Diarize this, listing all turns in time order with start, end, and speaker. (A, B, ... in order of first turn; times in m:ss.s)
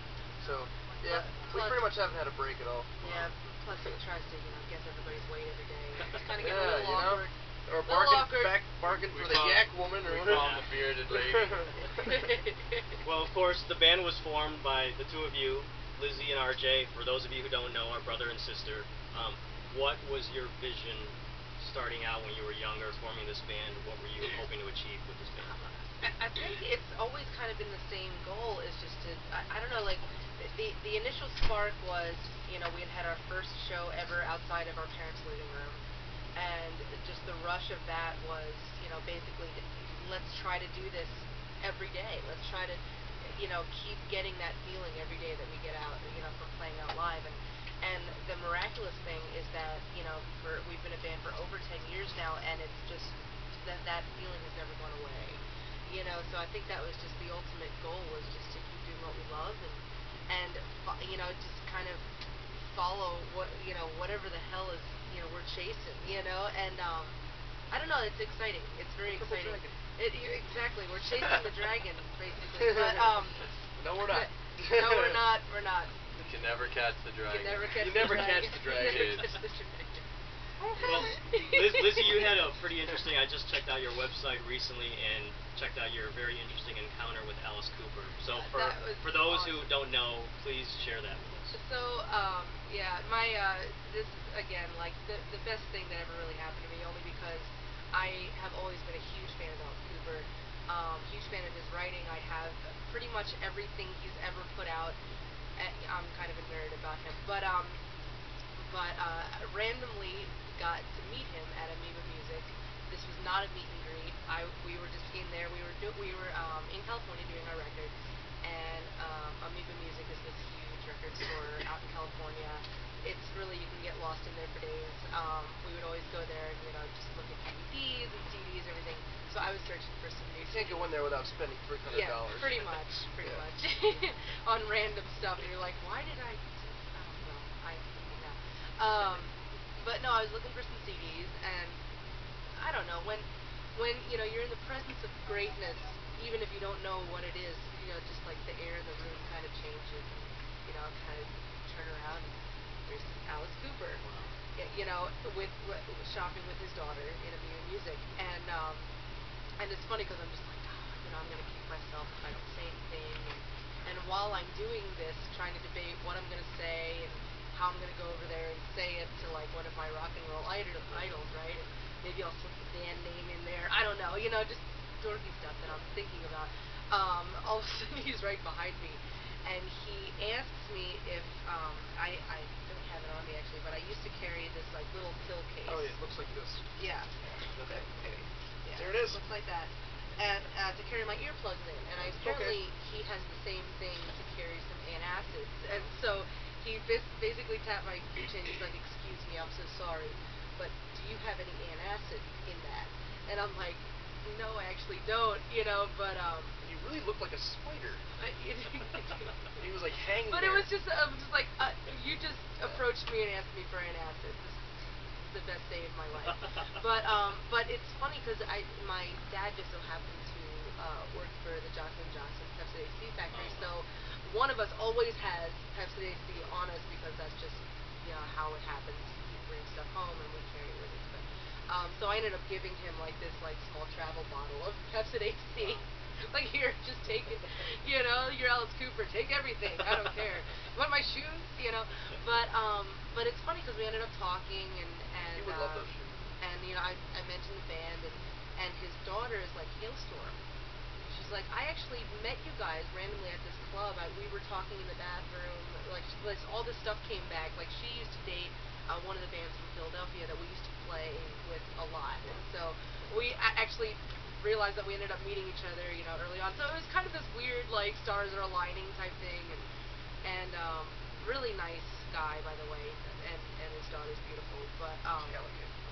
0:00.4-0:03.1 A
0:01.0-0:01.9 B
0:03.0-0:07.2 B
0:03.0-0:03.3 C
0:06.4-0:10.5 A
0:07.8-0:08.6 B
0:08.9-0:11.8 D
0:10.3-0:10.6 C
0:11.2-0:11.7 A
0:12.0-0:12.8 B
0:13.0-0:25.6 C
0:25.4-0:35.8 B
0:36.4-1:02.0 B
1:02.6-1:07.2 B
1:07.7-1:13.4 B
1:09.0-1:09.7 A
1:12.6-1:13.2 A
1:13.8-1:15.3 A
1:14.0-1:16.6 B
1:16.2-1:19.4 D
1:17.3-1:20.0 B
1:17.7-1:19.1 A
1:20.8-1:22.3 B
1:20.8-1:31.6 C
1:28.3-1:29.8 B
1:31.5-1:45.0 B
1:45.6-1:47.8 B
1:48.6-2:10.9 B
2:10.4-2:13.4 A
2:11.9-2:21.8 B
2:22.6-2:32.3 B
2:32.9-2:34.0 B
2:34.0-2:34.3 C
2:34.6-2:38.9 B
2:39.6-3:05.9 B
3:05.6-3:06.6 A
3:06.8-3:07.1 B
3:07.6-3:08.2 A
3:07.7-3:26.5 B
3:08.7-3:09.2 A
3:12.0-3:12.6 A
3:26.6-3:28.0 A
3:28.2-3:29.4 B
3:29.6-3:30.7 A
3:30.3-4:10.4 B
3:43.3-3:43.7 C
3:55.6-3:55.9 C
4:05.3-4:06.2 A
4:11.1-4:29.7 B
4:30.2-4:35.4 B
4:35.1-4:35.7 A